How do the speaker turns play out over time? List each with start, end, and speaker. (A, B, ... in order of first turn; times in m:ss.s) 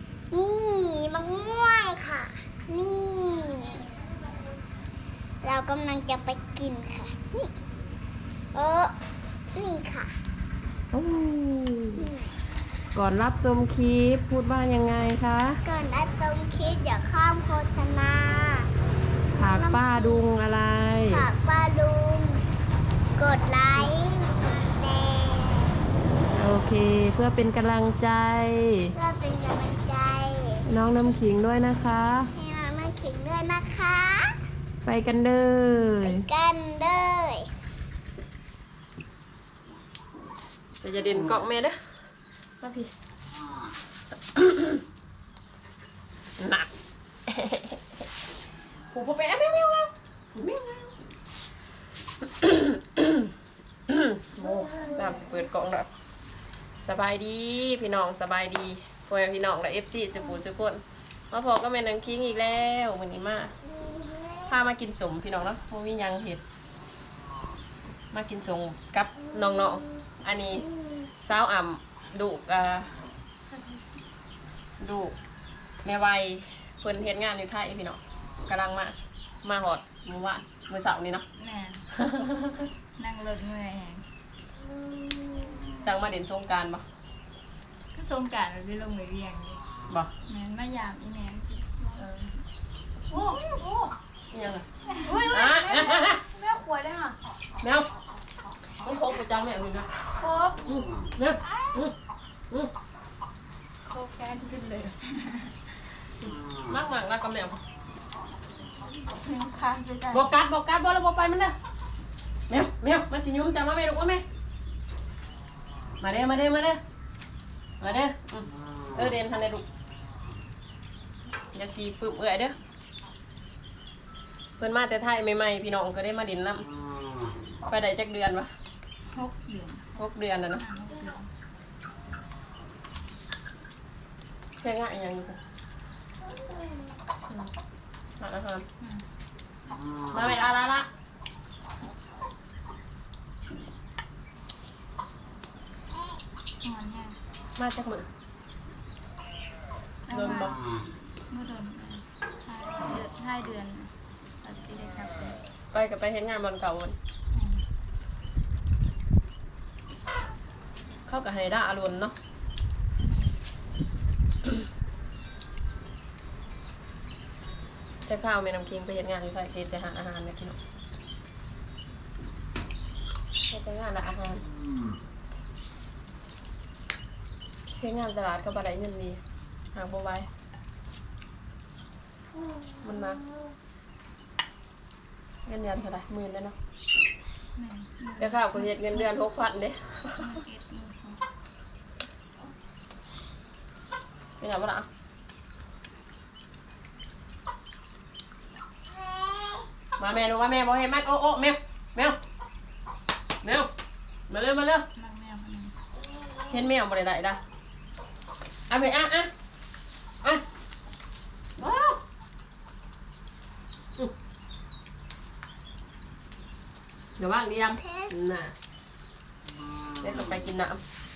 0:00.3-0:04.0 A
0:05.4-0:07.5 A
0:08.5-0:08.9 A
0:09.6-0:10.1 A
0:10.9-0:12.1 B
0:12.0-0:12.4 A
0:13.0-0:15.6 B
0:15.6-0:18.7 A
0:19.4-0:21.3 B
0:19.4-0:20.2 A
0:21.1-0:22.4 A
0:23.2-0:25.8 A
0:26.3-0:28.9 B
0:28.9-0:30.6 A
0:30.7-0:32.3 B
0:32.4-0:34.4 A
0:34.8-0:36.2 B
0:36.0-0:37.5 A
0:40.8-0:41.8 B
0:42.6-0:42.9 B
0:44.4-0:44.8 B
0:46.4-0:46.7 B
0:47.3-0:47.8 B
0:48.9-0:50.9 B
0:52.4-0:53.3 B
0:53.9-0:55.9 B
0:54.6-0:55.1 A
0:56.8-1:03.5 B
1:03.7-1:04.5 A
1:04.5-1:06.4 B
1:08.1-1:10.7 B
1:11.2-1:12.9 B
1:14.8-1:15.2 B
1:15.8-1:21.2 B
1:21.4-1:21.9 C
1:22.0-1:22.7 B
1:23.0-1:24.1 C
1:24.7-1:25.7 A
1:25.8-1:26.8 B
1:27.9-1:29.6 C
1:30.3-1:32.1 C
1:32.0-1:32.3 B
1:33.1-1:33.9 C
1:34.3-1:34.7 B
1:34.9-1:37.2 C
1:35.2-1:36.2 B
1:37.6-1:37.9 B
1:38.8-1:40.1 B
1:40.2-1:40.6 C
1:40.7-1:41.9 B
1:41.5-1:41.9 C
1:43.9-1:45.7 C
1:46.5-1:47.6 B
1:48.9-1:50.3 C
1:50.1-1:51.6 B
1:52.5-1:54.2 B
1:56.0-1:56.8 B
1:57.8-1:59.6 B
2:01.5-2:02.6 B
2:04.6-2:06.7 B
2:07.7-2:08.5 B
2:09.1-2:10.0 C
2:10.0-2:10.6 B
2:10.6-2:11.3 C
2:14.6-2:15.4 B
2:16.3-2:17.0 A
2:17.2-2:17.5 C
2:18.2-2:18.7 B
2:20.1-2:20.9 B
2:26.6-2:27.2 C
2:27.6-2:28.1 B
2:30.1-2:30.6 C
2:30.1-2:30.6 B
2:31.3-2:35.4 C
2:35.7-2:37.0 B
2:37.3-2:37.6 C
2:41.1-2:42.2 B
2:43.0-2:43.3 C
2:48.1-2:50.6 B
2:53.5-2:54.4 B
2:57.8-2:59.2 B
2:59.7-3:00.3 B
3:02.8-3:03.2 B
3:05.5-3:06.6 B
3:07.6-3:09.3 C
3:08.2-3:10.4 B
3:10.2-3:11.2 C
3:14.4-3:14.9 B
3:18.9-3:19.7 A
3:20.0-3:22.2 B
3:23.4-3:23.7 B
3:24.3-3:24.9 B
3:25.0-3:25.8 C
3:26.1-3:26.5 A
3:26.5-3:27.4 B
3:28.7-3:29.3 B
3:31.6-3:32.0 B
3:37.2-3:38.5 B
3:37.8-3:38.1 A
3:40.0-3:40.8 B